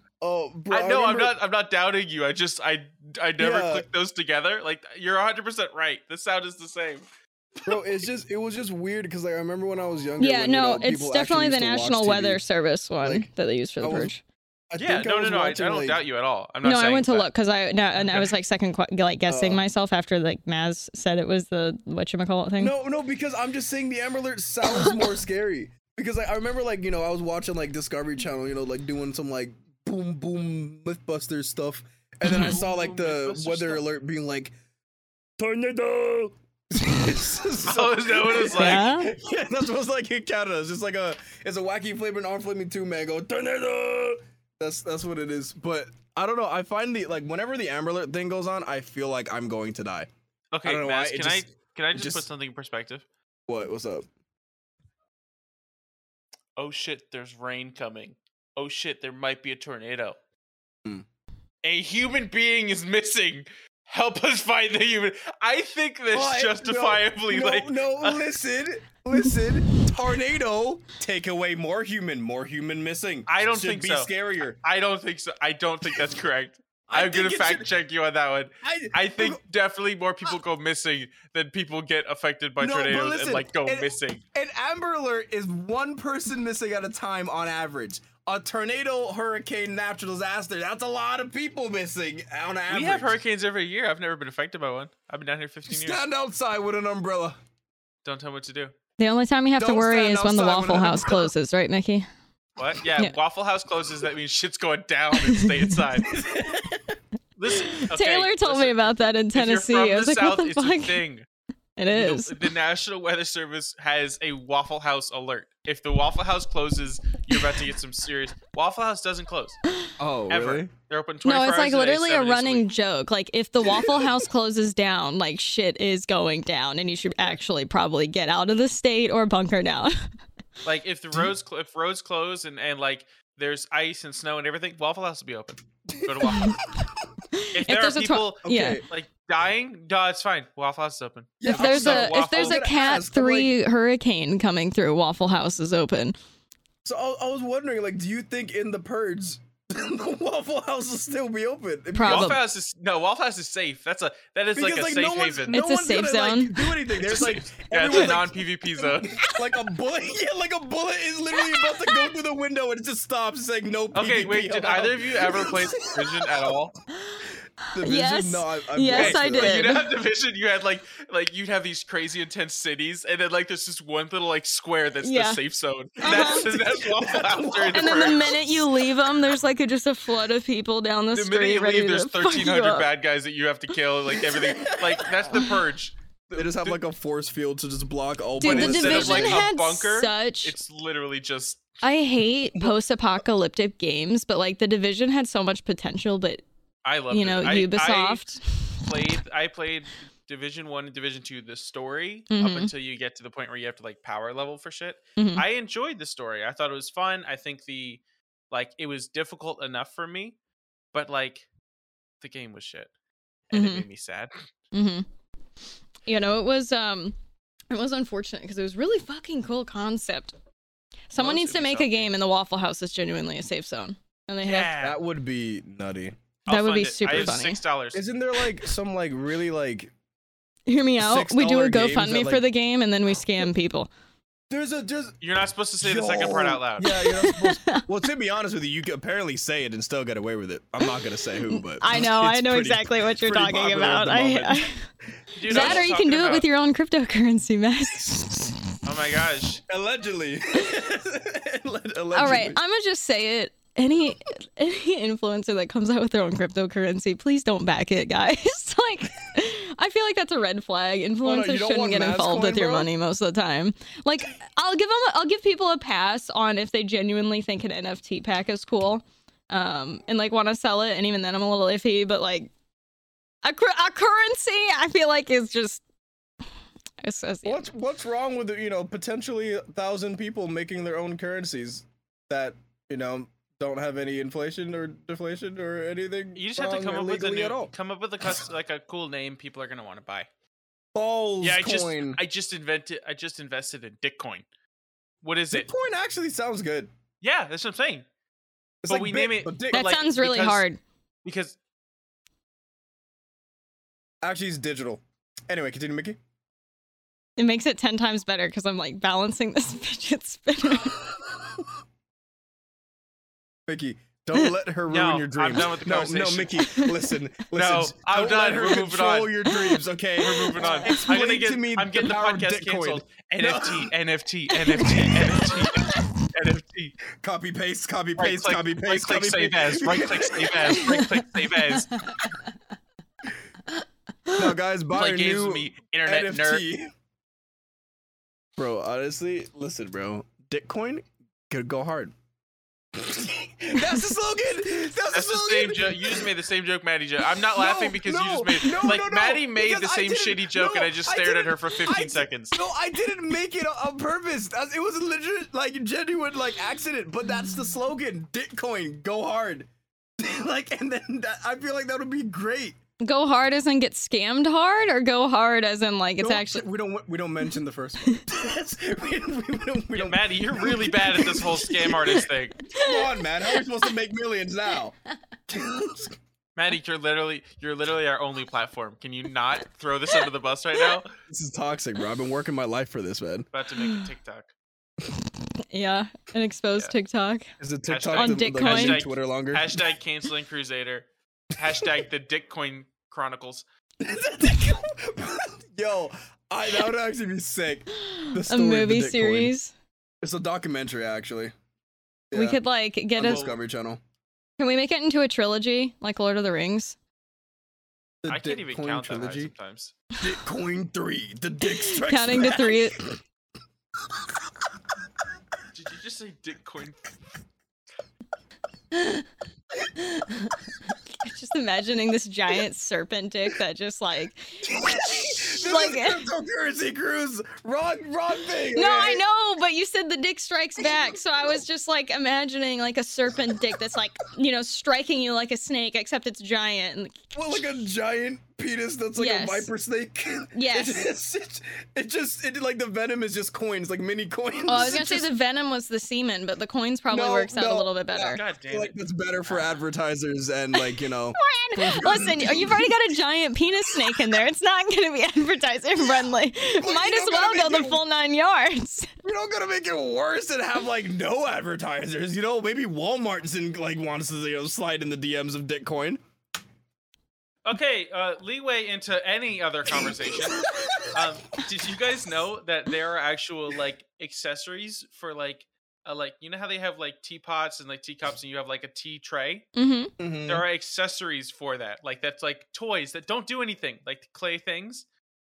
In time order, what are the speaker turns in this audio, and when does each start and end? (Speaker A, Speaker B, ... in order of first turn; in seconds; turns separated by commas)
Speaker A: 0.2-1.4, Speaker B: 0.7-7.1, Speaker A: 3.4-3.9, Speaker A: 7.7-12.4, Speaker C: 10.2-14.2, Speaker A: 13.0-13.3, Speaker A: 13.8-14.1, Speaker A: 14.7-16.0, Speaker B: 14.8-17.3, Speaker C: 16.6-22.7, Speaker B: 18.0-18.3, Speaker A: 19.3-19.6, Speaker A: 22.6-34.5, Speaker B: 32.2-33.8, Speaker C: 32.3-32.5, Speaker A: 35.4-50.1, Speaker B: 37.6-38.9, Speaker C: 38.5-39.1, Speaker B: 50.5-53.0, Speaker A: 50.6-52.2, Speaker A: 53.5-54.0, Speaker B: 56.5-60.2, Speaker B: 61.6-68.2, Speaker A: 66.1-74.6, Speaker B: 73.3-84.2, Speaker A: 76.9-77.7, Speaker A: 78.6-79.4, Speaker A: 82.6-93.2, Speaker B: 92.7-96.0, Speaker A: 95.7-97.4, Speaker B: 98.0-98.7, Speaker C: 99.0-102.0, Speaker A: 99.6-101.3, Speaker B: 102.6-106.2, Speaker A: 106.1-106.8, Speaker B: 107.3-111.2, Speaker C: 107.6-111.0, Speaker C: 111.8-112.4, Speaker B: 111.9-119.6, Speaker A: 120.0-120.7, Speaker B: 120.3-122.7, Speaker C: 121.2-130.0, Speaker A: 123.8-124.1, Speaker B: 130.6-136.6, Speaker A: 135.9-136.8, Speaker C: 136.3-136.6, Speaker C: 137.3-138.8, Speaker B: 137.5-142.6, Speaker A: 138.4-138.8, Speaker A: 141.4-143.5, Speaker C: 141.4-146.1, Speaker A: 146.8-152.4, Speaker C: 151.9-152.4, Speaker B: 152.0-155.6, Speaker A: 154.6-166.5, Speaker C: 155.5-156.7, Speaker B: 157.0-159.2, Speaker C: 161.5-162.1, Speaker B: 163.9-166.8, Speaker C: 167.7-169.9, Speaker A: 167.7-169.7, Speaker B: 168.9-178.5, Speaker C: 175.0-175.4, Speaker A: 176.0-178.6, Speaker C: 176.0-176.5, Speaker C: 177.7-182.9, Speaker B: 181.1-186.8, Speaker A: 184.3-185.4, Speaker A: 186.3-189.5, Speaker C: 188.4-190.5, Speaker B: 188.4-191.7, Speaker C: 191.8-196.4, Speaker B: 196.8-210.3, Speaker C: 197.1-198.4, Speaker C: 202.3-202.7, Speaker C: 205.2-205.4, Speaker B: 210.9-211.4, Speaker B: 212.2-212.9, Speaker B: 213.5-214.4, Speaker C: 213.5-213.8, Speaker C: 214.7-215.0, Speaker C: 216.1-217.2, Speaker C: 217.7-220.3, Speaker C: 221.1-224.7, Speaker B: 221.2-222.1, Speaker B: 224.4-225.0, Speaker A: 224.8-226.2, Speaker B: 226.5-228.0, Speaker C: 226.5-227.6, Speaker A: 227.9-229.9, Speaker C: 230.7-233.9, Speaker A: 231.0-232.4, Speaker A: 234.5-235.2, Speaker B: 235.2-236.9, Speaker A: 235.8-244.7, Speaker C: 236.8-237.8, Speaker C: 241.5-244.8, Speaker B: 245.3-246.5, Speaker C: 245.5-248.6, Speaker A: 245.5-245.8, Speaker B: 248.8-249.6, Speaker A: 249.7-252.6, Speaker C: 252.1-272.5, Speaker A: 261.2-262.9, Speaker C: 273.4-275.8, Speaker C: 277.0-277.6, Speaker A: 277.4-287.7, Speaker B: 286.4-290.3, Speaker A: 290.9-292.2, Speaker B: 291.4-294.4, Speaker B: 295.2-295.7, Speaker A: 295.5-296.9, Speaker B: 297.2-298.1, Speaker A: 298.8-299.9, Speaker B: 298.9-300.6, Speaker C: 299.7-300.8, Speaker B: 301.2-301.6, Speaker A: 304.2-306.2, Speaker C: 307.4-311.1, Speaker A: 313.7-323.9, Speaker B: 314.9-316.9, Speaker B: 317.5-319.6, Speaker B: 320.2-327.0, Speaker C: 320.6-320.9, Speaker A: 324.8-325.6, Speaker A: 327.1-331.0, Speaker B: 328.2-332.0, Speaker C: 330.9-331.2, Speaker C: 331.9-332.2, Speaker A: 334.3-336.9, Speaker B: 334.9-336.6, Speaker A: 338.6-342.1, Speaker A: 342.9-346.3, Speaker B: 345.1-352.6, Speaker A: 347.4-359.7, Speaker A: 360.2-362.8, Speaker C: 363.0-366.6, Speaker A: 366.2-374.9, Speaker B: 369.9-372.6, Speaker C: 372.7-373.1, Speaker A: 375.5-376.2, Speaker B: 376.6-381.1, Speaker A: 381.3-383.5, Speaker B: 383.5-384.5, Speaker C: 385.7-387.4, Speaker A: 387.6-389.9, Speaker B: 387.9-393.6, Speaker C: 388.1-389.0, Speaker A: 394.0-399.5, Speaker C: 398.0-399.7, Speaker A: 400.2-401.5, Speaker A: 402.3-402.6, Speaker C: 402.3-403.5, Speaker A: 403.2-404.0, Speaker B: 403.2-403.5, Speaker C: 404.6-406.9, Speaker A: 408.2-409.5, Speaker B: 408.3-409.9, Speaker A: 410.2-413.2, Speaker C: 411.6-413.1, Speaker B: 415.7-417.0, Speaker C: 418.9-419.2, Speaker C: 419.9-420.5, Speaker C: 421.2-426.2, Speaker A: 424.6-429.2, Speaker C: 428.7-437.3, Speaker A: 437.3-445.3, Speaker C: 439.1-439.7, Speaker C: 440.5-441.0, Speaker C: 444.7-448.4, Speaker A: 447.1-453.0, Speaker B: 448.3-449.7, Speaker C: 451.3-459.1, Speaker A: 456.8-458.0, Speaker A: 459.2-466.2, Speaker B: 467.6-479.7, Speaker A: 470.8-471.2, Speaker C: 479.8-480.1, Speaker A: 480.2-480.6, Speaker B: 480.4-485.0